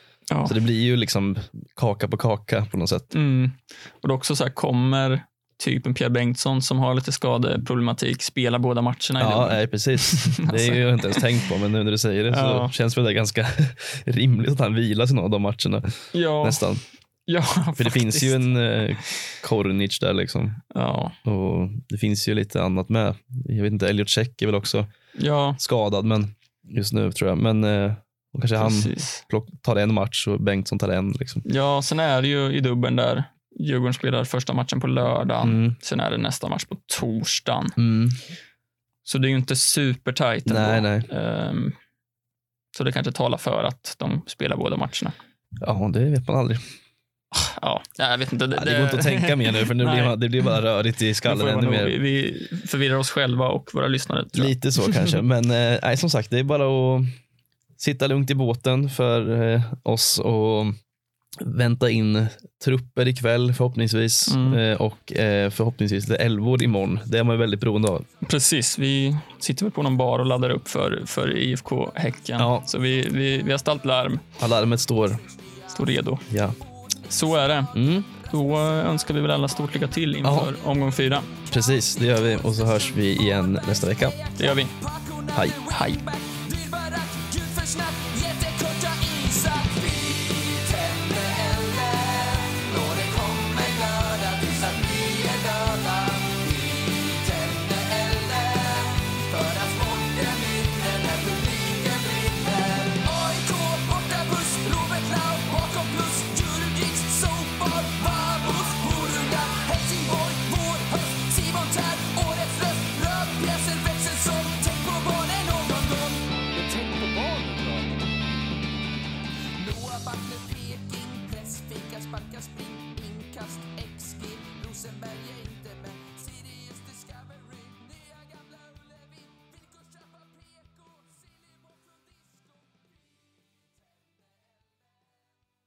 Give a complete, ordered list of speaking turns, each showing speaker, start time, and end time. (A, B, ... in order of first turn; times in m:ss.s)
0:00.3-0:00.6 A
0:00.4-0:03.1 B
0:03.1-0:11.2 A
0:09.2-0:16.8 B
0:12.3-0:12.7 A
0:16.1-0:16.7 A
0:17.3-0:18.6 A
0:17.8-0:20.6 B
0:20.7-0:21.2 A
0:21.2-0:24.9 B
0:25.2-0:25.6 A
0:25.6-0:31.4 B
0:28.6-0:29.2 A
0:31.4-0:37.8 A
0:35.4-0:35.8 B
0:37.8-0:38.2 B
0:39.0-0:41.8 A
0:40.5-0:41.1 B
0:42.7-0:45.2 A
0:45.6-0:46.6 B
0:47.3-0:50.5 A
0:48.5-0:52.0 B
0:51.2-0:55.2 A
0:54.3-0:57.1 B
0:57.8-1:00.7 B
1:01.4-1:08.1 B
1:04.3-1:04.6 A
1:08.2-1:14.2 A
1:11.7-1:14.4 C
1:12.4-1:12.7 B
1:14.4-1:15.2 B
1:15.0-1:58.1 C
1:15.7-1:16.2 A
1:16.3-1:16.6 B
1:17.1-1:17.8 A
1:17.7-1:18.1 B
1:18.3-1:21.3 A
1:20.2-1:20.5 B
1:21.5-1:24.2 B
1:24.4-1:24.7 A
1:25.7-1:26.0 A
1:59.6-2:15.3 C